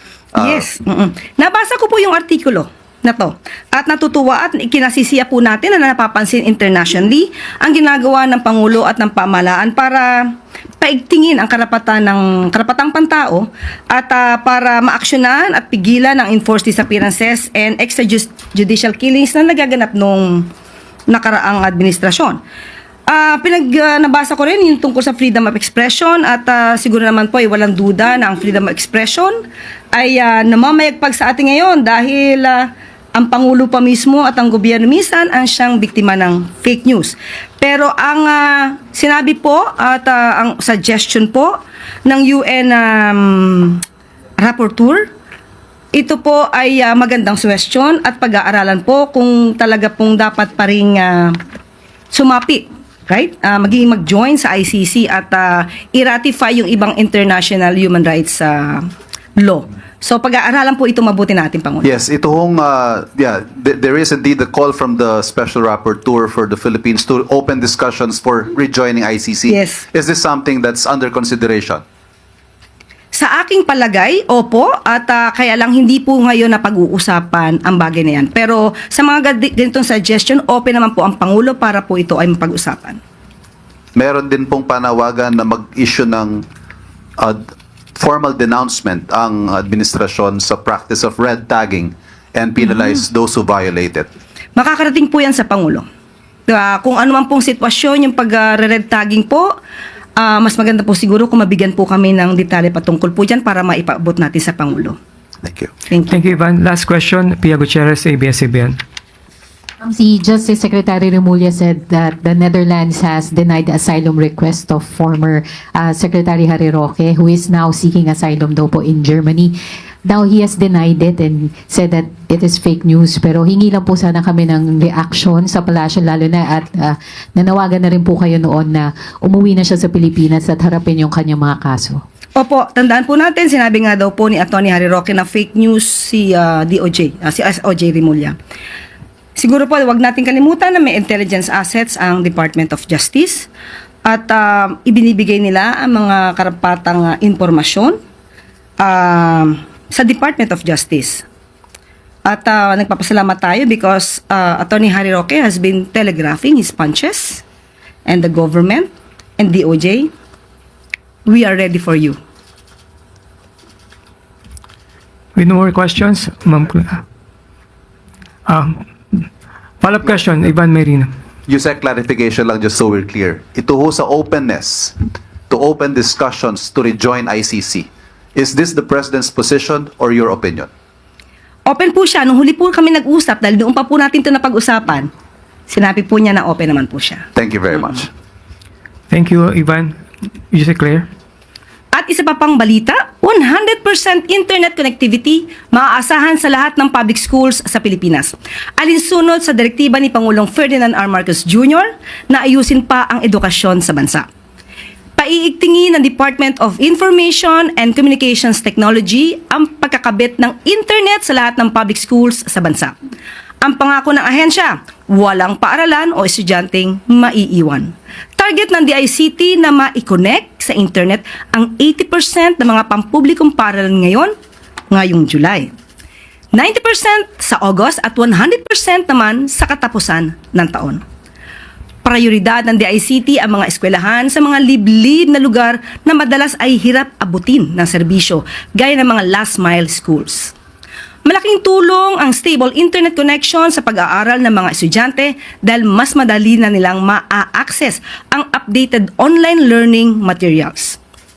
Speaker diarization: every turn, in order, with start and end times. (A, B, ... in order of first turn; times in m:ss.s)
0:00.4-0:20.5 A
0:21.1-0:22.4 A
0:23.1-0:29.4 A
0:29.9-0:43.8 A
0:44.4-0:45.1 A
0:45.9-0:51.4 A
0:52.1-1:01.9 A
1:01.8-1:11.8 B
1:09.5-1:09.8 A
1:13.1-1:23.0 A
1:24.0-1:26.4 B
1:28.0-1:34.1 B
1:32.6-1:33.0 A
1:34.6-1:35.9 A
1:36.5-1:39.5 A
1:40.2-1:45.0 A
1:45.4-1:45.7 B
1:45.9-1:46.2 A
1:46.1-1:48.8 C
1:49.9-1:59.6 D
2:00.1-2:12.0 D
2:12.4-2:18.4 A
2:19.4-2:23.5 A
2:24.0-2:28.0 A
2:28.8-2:31.2 A
2:32.3-2:37.4 A
2:38.1-2:40.1 A
2:41.3-2:42.2 A
2:45.4-2:47.0 C
2:48.5-2:49.3 C
2:49.8-2:51.1 C
2:51.5-2:54.9 B
2:55.5-3:00.7 B
3:01.7-3:05.1 A
3:05.7-3:07.3 A
3:07.4-3:08.1 B
3:09.1-3:10.0 C
3:10.5-3:11.1 C
3:11.9-3:24.3 A
3:25.2-3:33.0 A
3:33.6-3:44.3 A
3:44.9-3:45.7 A
3:46.5-3:51.0 A
3:52.0-4:00.5 A
4:01.2-4:11.0 A